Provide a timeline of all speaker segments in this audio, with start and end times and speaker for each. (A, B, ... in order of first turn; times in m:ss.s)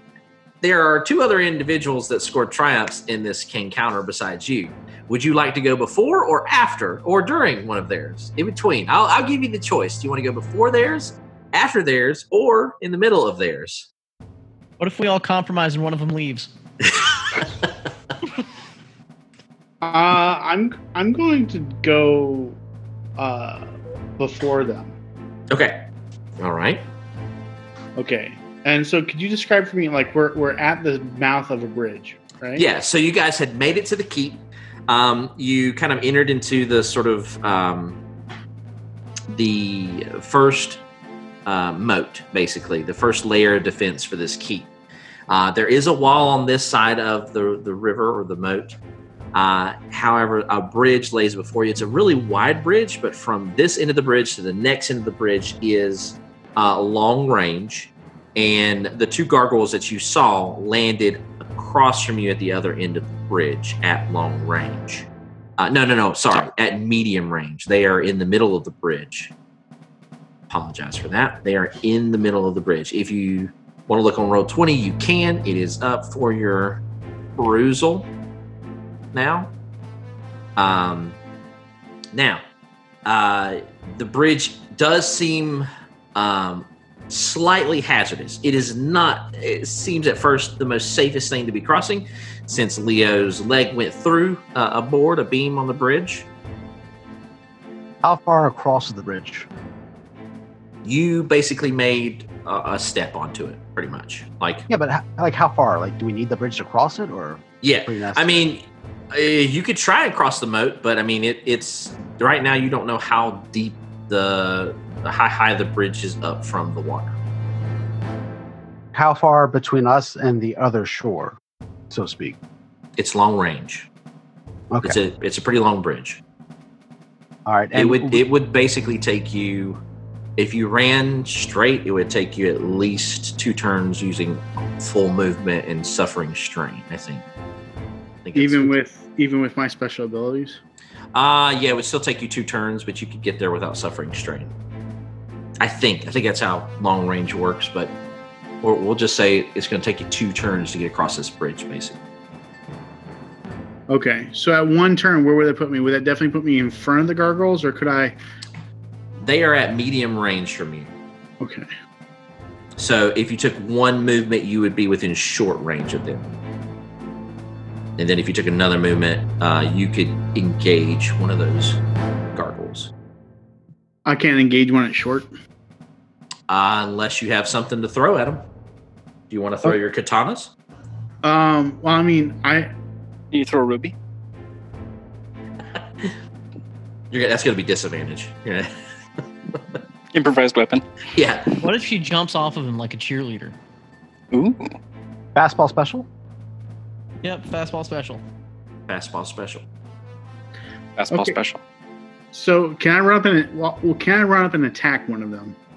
0:00.6-0:13.9 A
0:14.8-0:16.5 B
0:19.8-0:22.6 C
0:23.2-0:25.0 C
0:25.5-0:25.8 A
0:26.4-0:26.8 A
0:28.0-0:32.6 C
0:32.6-0:38.0 A
0:39.3-0:40.8 A
0:41.4-0:44.7 A
0:45.3-0:48.8 A
0:49.3-1:05.1 A
1:05.6-1:09.3 A
1:10.5-1:16.8 A
1:17.4-1:18.1 A
1:19.1-1:19.5 A
1:20.6-1:21.2 A
1:22.1-1:22.4 A
1:23.0-1:36.3 A
1:38.0-1:39.5 D
1:40.8-1:44.6 A
1:44.7-1:48.4 D
1:47.6-1:57.2 A
1:58.9-2:01.4 D
2:01.9-2:02.4 D
2:03.0-2:03.9 A
2:04.7-2:05.0 D
2:04.8-2:06.2 A
2:07.4-2:08.2 D
2:07.7-2:09.8 A
2:10.4-2:17.2 A
2:18.2-2:18.7 A
2:18.3-2:20.6 C
2:21.1-2:24.5 A
2:25.6-2:27.9 A
2:28.6-2:32.0 A
2:33.9-2:38.2 C
2:39.2-2:40.9 A
2:41.4-2:41.7 C
2:42.8-2:46.3 A
2:48.0-2:51.8 A
2:52.3-2:52.9 A
2:54.0-2:55.3 C
2:56.5-2:58.4 A
2:59.3-3:00.5 A
3:01.2-3:02.7 C
3:03.3-3:03.9 E
3:07.1-3:08.7 A
3:10.1-3:10.8 E
3:11.1-3:11.5 A
3:11.6-3:13.6 B
3:14.3-3:14.7 E
3:15.3-3:16.1 D
3:17.2-3:18.2 B
3:18.9-3:19.6 A
3:21.0-3:21.6 E
3:21.1-3:21.4 C
3:22.3-3:25.6 C